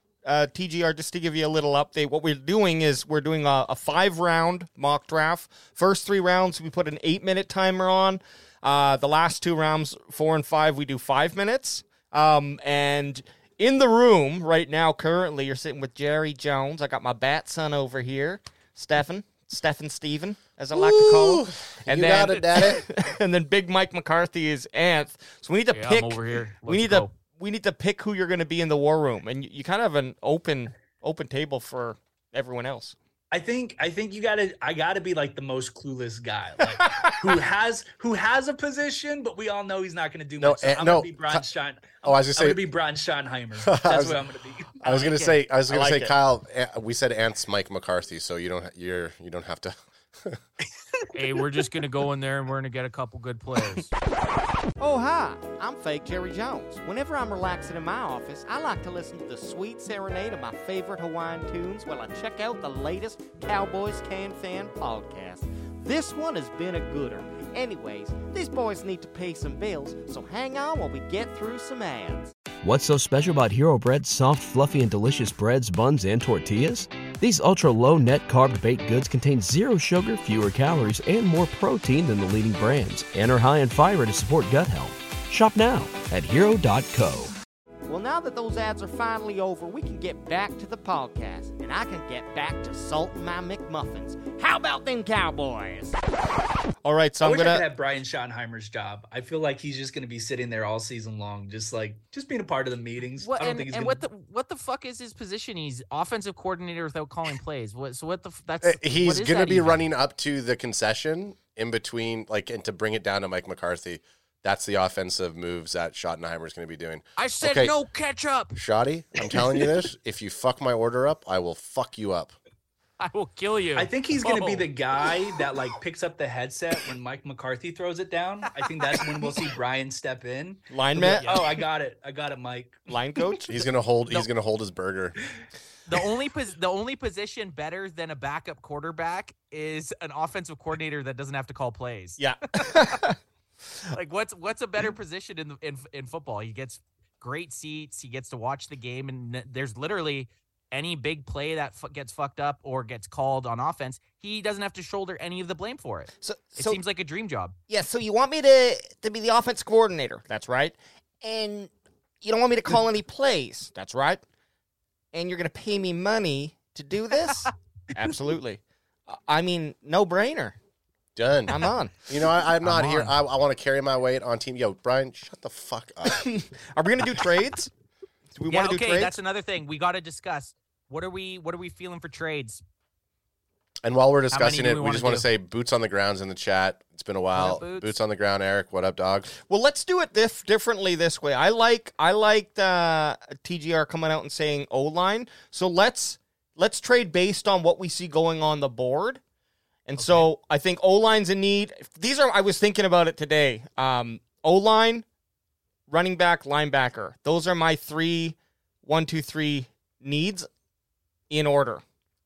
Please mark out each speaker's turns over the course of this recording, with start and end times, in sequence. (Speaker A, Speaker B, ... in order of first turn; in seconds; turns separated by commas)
Speaker A: 0.2-32.9, Speaker B: 20.7-22.8, Speaker C: 25.7-27.1, Speaker D: 33.3-44.8, Speaker A: 36.8-37.4, Speaker B: 40.4-41.4, Speaker B: 42.0-42.6, Speaker B: 43.6-44.2, Speaker B: 44.8-50.4, Speaker C: 44.8-45.4, Speaker A: 45.7-46.1, Speaker C: 51.1-53.9, Speaker E: 54.8-72.3, Speaker F: 72.6-87.3, Speaker E: 87.9-95.9, Speaker A: 96.8-97.6, Speaker D: 97.2-104.0, Speaker C: 103.2-109.9, Speaker B: 108.6-117.7, Speaker C: 117.2-118.6, Speaker B: 118.5-122.3, Speaker C: 123.0-124.7, Speaker D: 123.8-132.8, Speaker C: 128.9-129.3, Speaker A: 130.7-131.3, Speaker C: 131.2-131.6, Speaker A: 132.9-133.6, Speaker B: 133.4-135.2, Speaker C: 135.9-143.0, Speaker A: 142.2-143.2, Speaker C: 143.9-157.5, Speaker A: 156.2-156.8, Speaker A: 157.7-161.7, Speaker A: 162.2-164.2, Speaker A: 165.1-170.6, Speaker B: 171.2-176.2, Speaker A: 171.5-171.9, Speaker A: 172.6-173.1, Speaker C: 172.7-173.1, Speaker A: 176.0-177.7, Speaker A: 178.3-179.2, Speaker C: 178.5-182.6, Speaker B: 183.8-189.3, Speaker C: 184.3-185.2, Speaker C: 187.3-187.9, Speaker A: 189.4-199.2, Speaker A: 199.9-205.0, Speaker C: 200.0-200.3, Speaker A: 205.9-210.5, Speaker A: 211.3-211.8